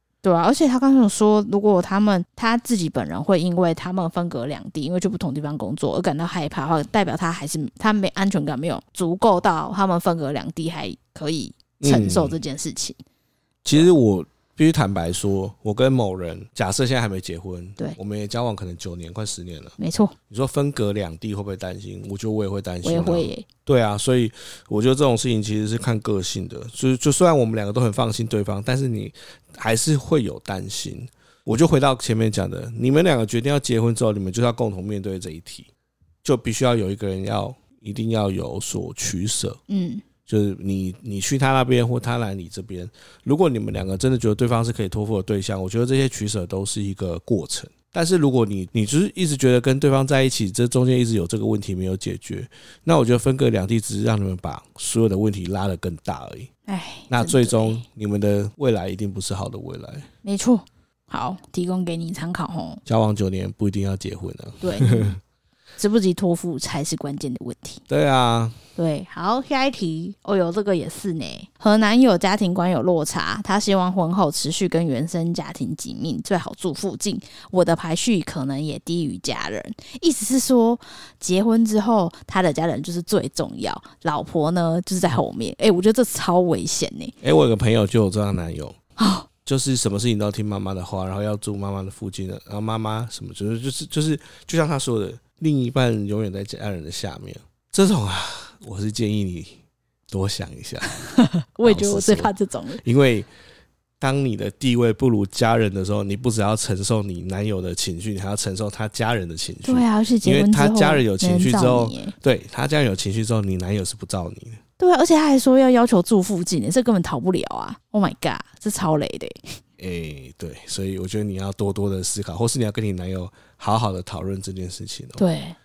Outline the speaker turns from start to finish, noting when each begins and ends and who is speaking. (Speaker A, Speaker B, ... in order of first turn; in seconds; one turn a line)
Speaker A: 0.2-13.0
Speaker B: 11.8-12.4
Speaker B: 13.7-19.8
Speaker A: 19.8-20.1
Speaker B: 20.3-35.7
Speaker A: 22.8-23.5
Speaker B: 36.2-39.6
Speaker A: 39.7-40.0
Speaker B: 40.3-56.5
Speaker A: 56.7-57.8
Speaker B: 57.1-60.1
Speaker A: 60.2-62.8
Speaker B: 62.9-65.2
Speaker A: 64.6-65.2
Speaker A: 65.8-67.8
Speaker B: 67.9-68.6
Speaker A: 68.8-87.1
Speaker B: 87.2-88.8
Speaker A: 89.0-89.3
Speaker B: 89.5-99.6
Speaker B: 100.1-100.9
Speaker A: 100.9-102.8
Speaker B: 101.6-102.3
Speaker B: 102.8-103.3
Speaker B: 104.0-114.6
Speaker A: 109.7-112.2
Speaker A: 114.8-119.6
Speaker B: 119.8-125.2
Speaker A: 125.2-125.6